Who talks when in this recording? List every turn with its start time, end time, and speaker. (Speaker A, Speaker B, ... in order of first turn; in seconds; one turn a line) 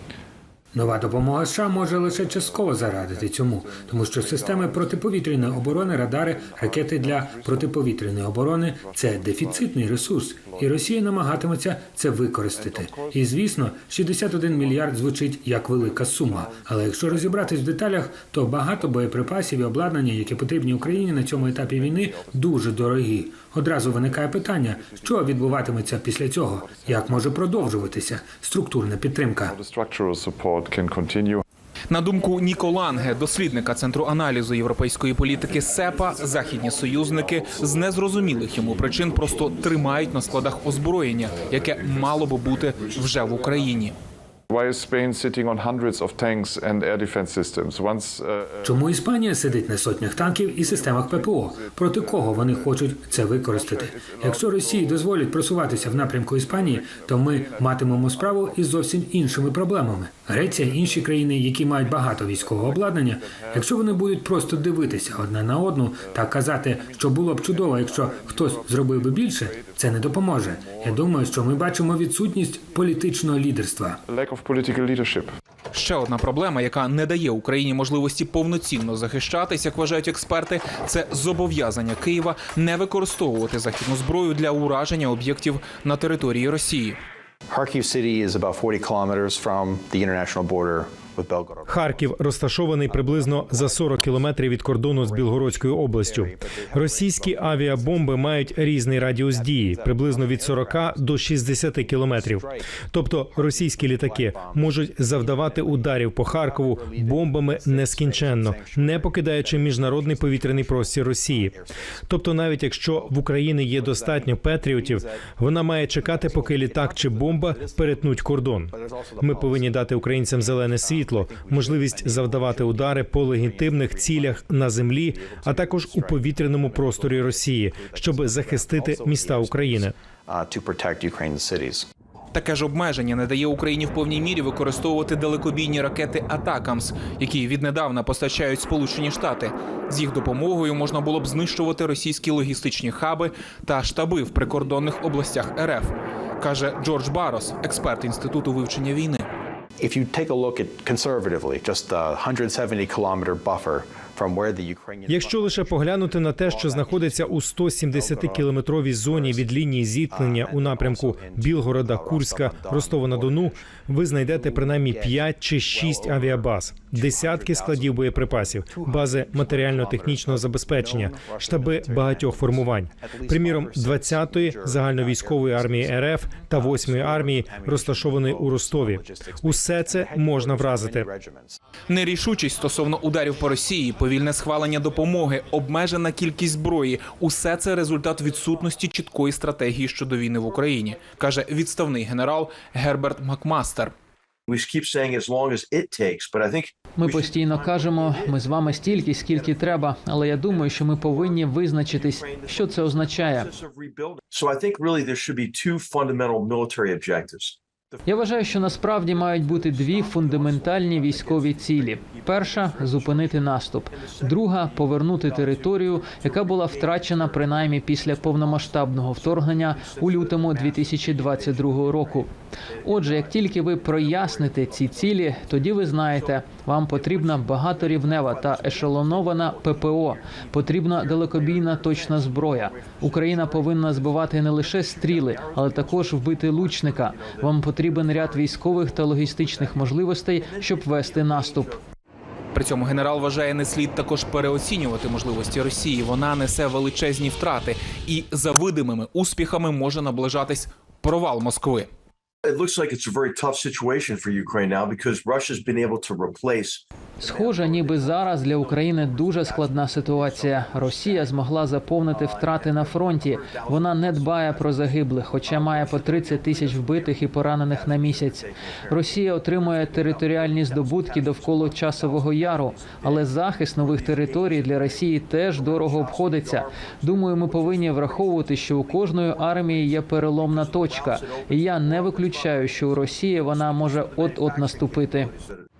Speaker A: 0.7-29.5
Speaker B: 29.4-31.4
Speaker C: 31.9-43.9
Speaker B: 44.5-48.6
Speaker A: 48.6-74.0
Speaker B: 74.1-75.3
Speaker C: 75.7-87.0
Speaker D: 87.5-92.0
Speaker E: 91.7-111.5
Speaker D: 93.2-93.8
Speaker D: 94.9-97.8
Speaker D: 99.3-101.0
Speaker D: 102.1-102.6
Speaker D: 103.4-111.7
Speaker E: 112.1-129.9
Speaker D: 113.7-115.1
Speaker D: 116.1-118.0
Speaker D: 118.7-119.7
Speaker D: 120.4-124.4
Speaker D: 125.1-131.9
Speaker C: 132.3-149.3
Speaker D: 149.8-157.4
Speaker E: 155.1-181.1
Speaker D: 157.9-158.5
Speaker D: 159.1-159.4
Speaker D: 160.1-163.6
Speaker D: 164.3-181.6
Speaker C: 181.9-193.9
Speaker F: 194.5-208.0
Speaker G: 196.9-203.5
Speaker G: 208.1-222.3
Speaker F: 209.1-213.2
Speaker F: 213.9-222.2
Speaker F: 222.8-225.1
Speaker G: 222.8-241.8
Speaker F: 226.9-229.7
Speaker F: 230.3-234.0
Speaker F: 234.6-241.8
Speaker C: 242.5-251.9
Speaker F: 252.4-261.4
Speaker G: 257.2-285.3
Speaker F: 262.1-269.2
Speaker F: 269.9-273.2
Speaker F: 273.8-285.6